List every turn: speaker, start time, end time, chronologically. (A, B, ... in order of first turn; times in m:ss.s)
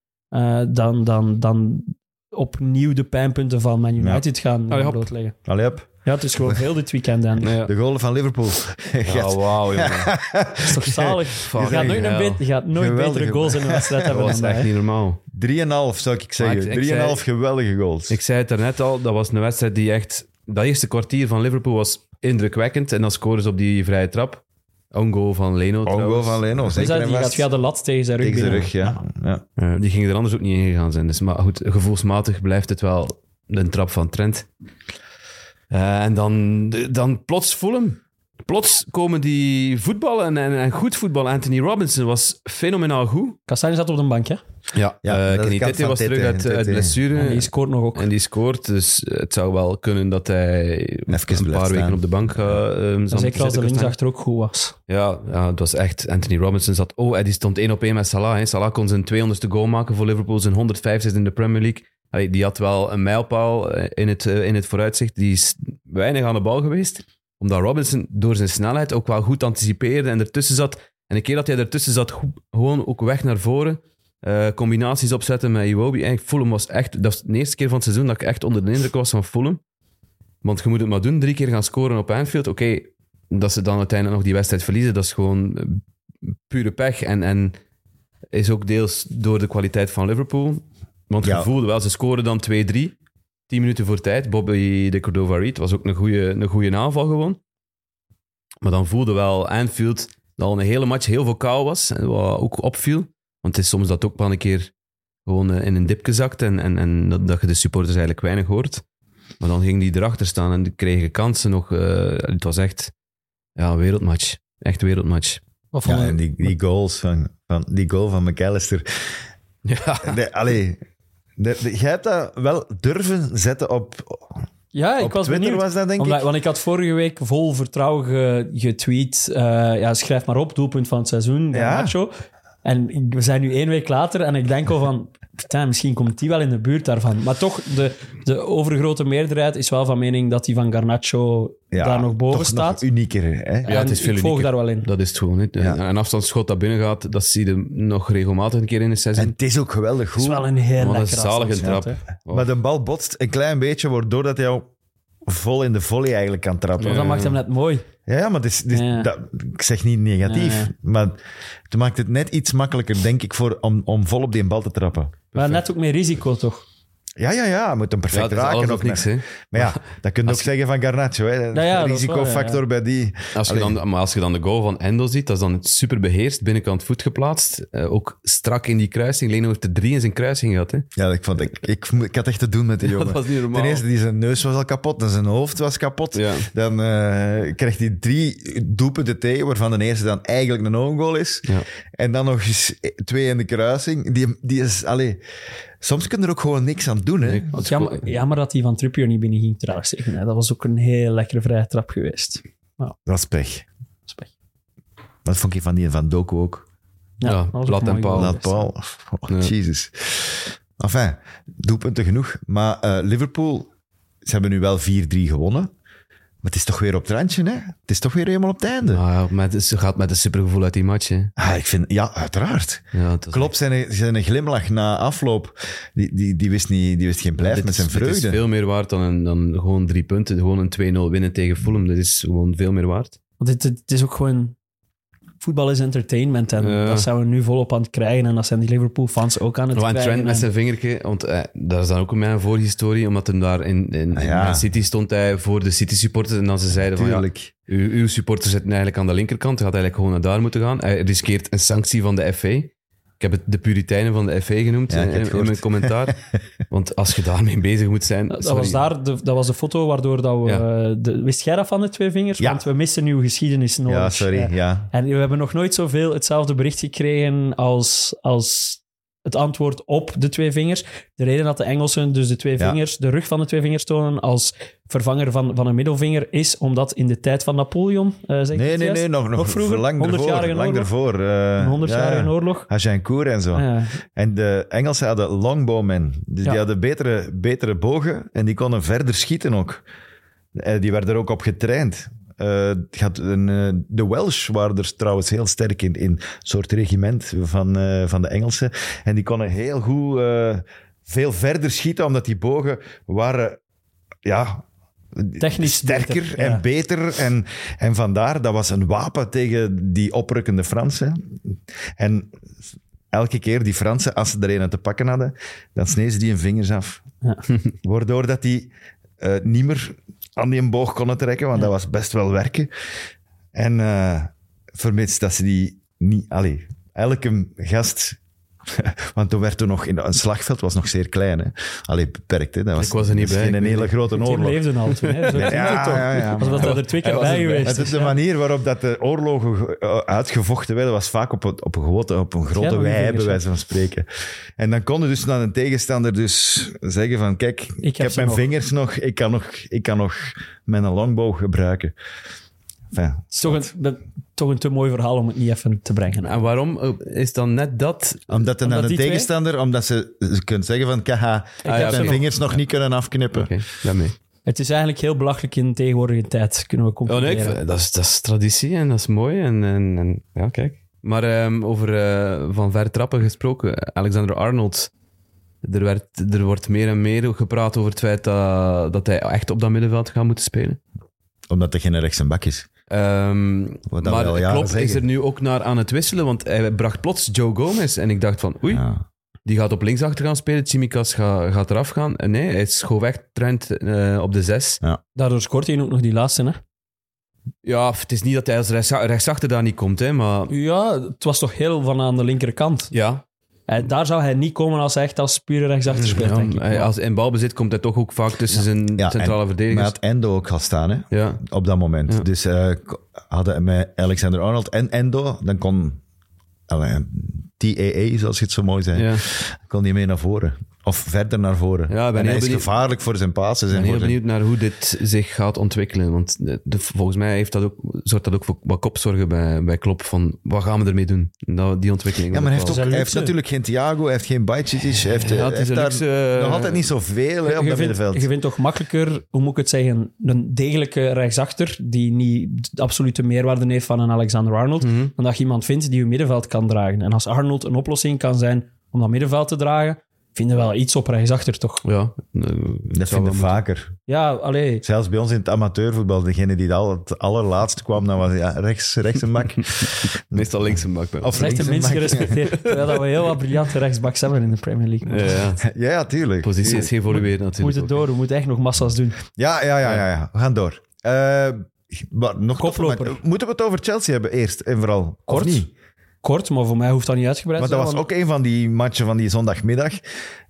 0:00.3-0:05.3 A
0:04.0-0:04.2 B
0:04.7-0:05.1 C
0:05.5-0:06.6 B
0:06.0-0:07.6 A
0:07.4-0:07.7 C
0:07.6-0:12.0 B
0:09.0-0:10.1 C
0:10.6-0:14.7 A
0:11.4-0:12.4 C
0:12.7-0:14.7 B
0:14.1-0:15.2 C
0:15.3-0:18.2 B
0:16.4-0:17.2 C
0:18.1-0:24.4 C
0:24.9-0:26.4 C
0:25.8-0:27.5 B
0:26.7-0:29.0 A
0:28.2-0:29.4 B
0:29.6-0:34.5 C
0:35.7-0:43.4 C
0:43.5-0:44.4 A
0:44.7-0:54.0 C
0:45.0-0:47.0 B
0:47.1-0:48.1 A
0:51.1-0:52.6 B
0:53.1-0:54.8 A
0:54.9-1:19.6 C
1:20.4-1:27.6 C
1:28.3-1:32.9 C
1:31.2-1:31.5 B
1:33.5-1:37.4 C
1:38.6-1:44.7 C
1:45.3-1:48.8 C
1:49.4-1:52.9 C
1:53.6-1:55.4 C
1:55.7-1:56.5 A
1:55.8-1:58.8 B
1:59.6-2:00.2 C
2:00.0-2:00.8 B
2:01.4-2:04.4 B
2:04.7-2:12.1 A
2:05.0-2:06.3 B
2:11.5-2:11.9 B
2:12.6-2:22.8 A
2:21.7-2:23.7 B
2:23.7-2:24.9 A
2:23.7-2:29.4 C
2:29.2-2:30.5 B
2:30.2-2:32.0 A
2:30.8-2:32.5 C
2:31.6-2:34.7 B
2:35.3-2:37.2 B
2:36.8-2:37.4 C
2:36.8-2:37.8 A
2:38.1-2:41.2 B
2:38.7-2:39.1 A
2:40.2-2:40.7 A
2:41.7-2:45.2 B
2:45.3-2:45.6 C
2:45.4-2:46.7 A
2:47.2-2:53.8 B
2:48.1-2:50.5 C
2:51.5-2:52.6 A
2:53.3-3:00.9 C
3:01.0-3:15.2 B
3:02.8-3:03.8 C
3:06.1-3:06.5 C
3:15.8-3:17.5 B
3:17.2-3:18.1 C
3:17.5-3:23.0 A
3:23.1-3:23.7 B
3:25.2-3:26.7 B
3:27.2-3:28.6 A
3:27.2-3:28.4 C
3:28.1-3:33.7 B
3:34.2-3:35.7 B
3:36.4-3:39.0 B
3:38.9-3:41.3 C
3:41.4-3:48.4 B
3:42.9-3:43.5 C
3:47.4-3:53.2 C
3:53.4-3:54.6 A
3:55.4-4:00.5 A
3:56.6-3:57.1 C
3:59.7-4:16.2 C
4:04.1-4:04.6 B
4:06.9-4:07.5 B
4:14.9-4:16.1 B
4:16.7-4:18.8 C
4:18.3-4:40.9 A
4:22.4-4:22.6 B
4:23.9-4:24.9 B
4:38.5-4:49.8 B
4:41.6-4:42.7 A
4:43.5-4:44.0 A
4:50.6-5:03.6 B
5:04.2-5:04.6 B
5:05.2-5:11.4 B
5:05.4-5:06.6 A
5:12.0-5:12.3 B
5:13.1-5:17.0 B
5:17.8-5:22.7 B
5:23.5-5:28.2 B
5:28.7-5:34.6 B
5:32.8-5:33.9 C
5:34.1-5:38.1 A
5:35.0-5:37.9 C
5:35.3-5:36.8 B
5:37.6-5:44.1 B
5:42.6-5:43.4 A
5:44.6-5:51.9 B
5:47.8-5:48.5 A
5:52.9-5:53.7 B
5:53.3-5:56.4 A
5:56.2-5:58.3 C
5:58.3-6:03.5 B
5:58.6-5:59.3 A
6:01.6-6:02.2 A
6:01.6-6:02.6 C
6:03.3-6:04.2 C
6:04.5-6:07.6 A
6:07.1-6:14.9 C
6:15.6-6:20.8 C
6:21.5-6:22.7 B
6:22.9-6:28.8 C
6:23.9-6:25.0 B
6:28.7-6:29.0 B
6:29.5-6:34.8 C
6:35.2-6:36.6 A
6:37.6-6:40.5 C
6:40.5-6:42.9 A
6:42.9-6:43.2 C
6:43.7-6:46.9 A
6:45.9-6:50.0 C
6:49.0-6:56.0 B
6:51.1-6:51.4 C
6:56.7-7:04.2 B
6:58.9-6:59.2 C
7:01.9-7:02.7 C
7:03.7-7:12.9 C
7:12.3-7:18.3 B
7:12.7-7:13.3 A
7:15.2-7:16.9 C
7:17.4-7:31.8 A
7:24.8-7:25.1 C
7:31.8-7:33.6 C
7:32.9-7:33.9 B
7:34.1-7:34.8 A
7:34.8-7:42.5 B
7:40.3-7:41.6 C
7:41.4-7:45.4 A
7:42.5-7:42.8 C
7:45.1-7:45.6 C
7:45.6-7:46.9 B
7:46.4-7:48.0 C
7:47.1-7:49.2 A
7:49.4-7:55.7 B
7:52.6-7:53.2 A
7:55.3-7:55.6 A
7:56.2-7:58.0 A
7:57.6-8:00.0 B